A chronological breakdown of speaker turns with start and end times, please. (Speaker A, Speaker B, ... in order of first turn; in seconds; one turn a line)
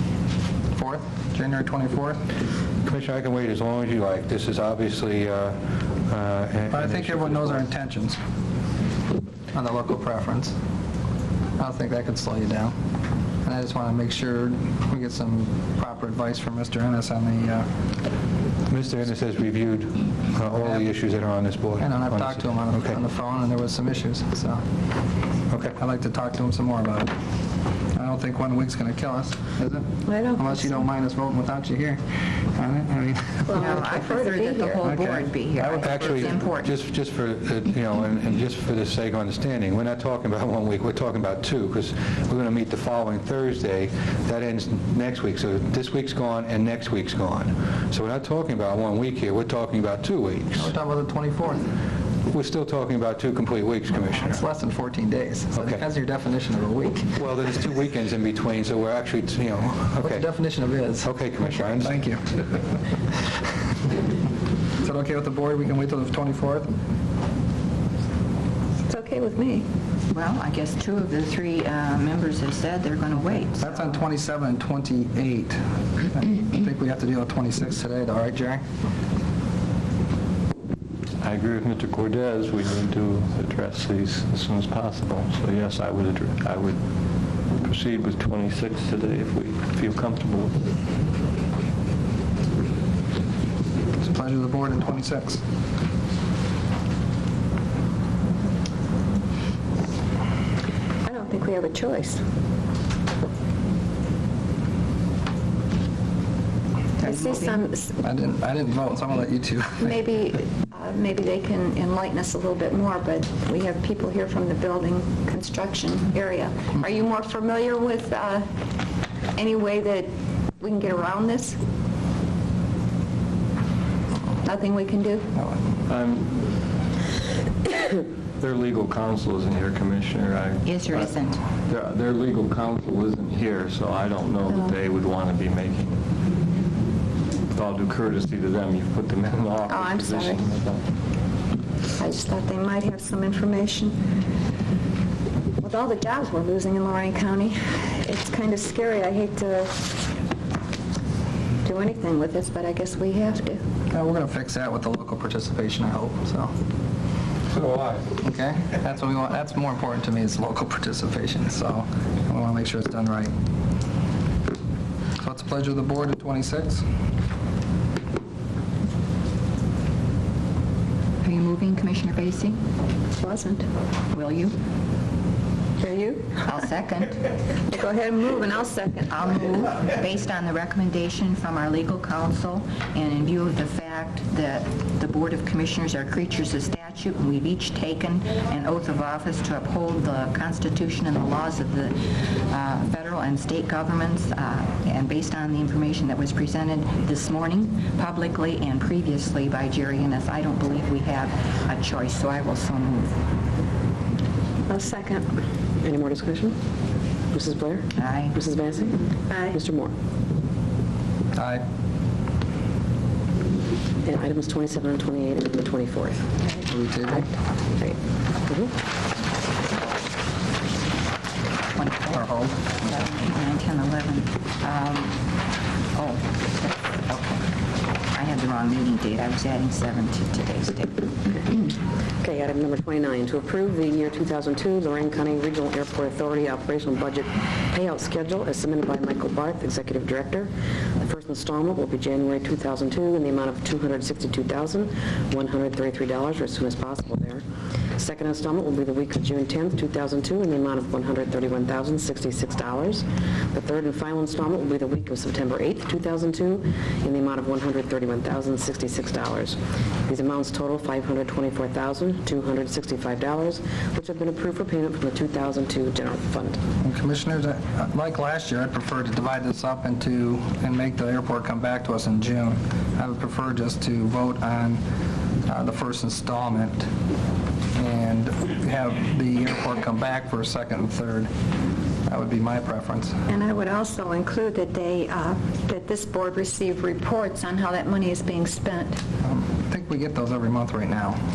Speaker A: 0.7-2.2
Speaker B: 2.8-7.7
Speaker A: 6.7-8.2
Speaker A: 9.5-10.6
Speaker A: 11.6-12.8
Speaker A: 13.4-17.7
Speaker B: 18.7-23.0
Speaker A: 20.6-20.9
Speaker A: 21.8-24.6
Speaker B: 25.5-25.7
Speaker A: 25.7-27.1
Speaker A: 27.9-33.8
Speaker C: 30.1-30.6
Speaker C: 33.5-34.9
Speaker D: 33.5-36.7
Speaker A: 34.8-36.4
Speaker B: 35.8-50.7
Speaker A: 50.6-51.7
Speaker B: 52.3-54.4
Speaker A: 54.0-57.2
Speaker B: 55.5-55.8
Speaker B: 57.1-60.3
Speaker A: 60.0-62.4
Speaker B: 61.0-62.0
Speaker A: 64.8-66.8
Speaker C: 68.9-69.7
Speaker D: 70.1-73.7
Speaker A: 73.6-78.6
Speaker E: 81.2-86.8
Speaker E: 87.5-90.5
Speaker A: 94.0-95.4
Speaker C: 101.0-102.2
Speaker C: 107.0-108.0
Speaker D: 107.0-107.7
Speaker A: 108.0-109.9
Speaker C: 109.8-118.5
Speaker C: 119.3-121.6
Speaker C: 124.4-125.3
Speaker E: 125.8-126.5
Speaker E: 128.4-136.0
Speaker D: 130.6-131.4
Speaker E: 137.5-140.8
Speaker C: 139.7-140.4
Speaker C: 142.0-143.9
Speaker C: 145.6-149.9
Speaker C: 151.6-153.6
Speaker A: 153.9-156.5
Speaker B: 157.5-158.2
Speaker A: 158.2-163.3
Speaker A: 165.2-166.8
Speaker D: 171.2-172.6
Speaker C: 173.2-173.7
Speaker D: 174.1-174.6
Speaker C: 175.8-176.6
Speaker D: 176.4-177.4
Speaker C: 177.6-179.5
Speaker D: 179.1-203.2
Speaker C: 204.7-205.3
Speaker F: 205.8-206.6
Speaker F: 207.3-209.9
Speaker D: 207.9-208.4
Speaker C: 209.3-209.6
Speaker A: 211.3-211.6
Speaker F: 214.0-216.6
Speaker A: 216.7-217.3
Speaker F: 217.8-218.7
Speaker D: 221.7-225.4
Speaker A: 222.1-222.7
Speaker D: 225.9-231.1
Speaker F: 231.3-247.4
Speaker F: 247.9-266.6
Speaker A: 266.8-274.8
Speaker A: 275.4-276.9
Speaker A: 277.7-281.3
Speaker A: 282.1-283.2
Speaker C: 283.3-289.0
Speaker A: 289.2-291.2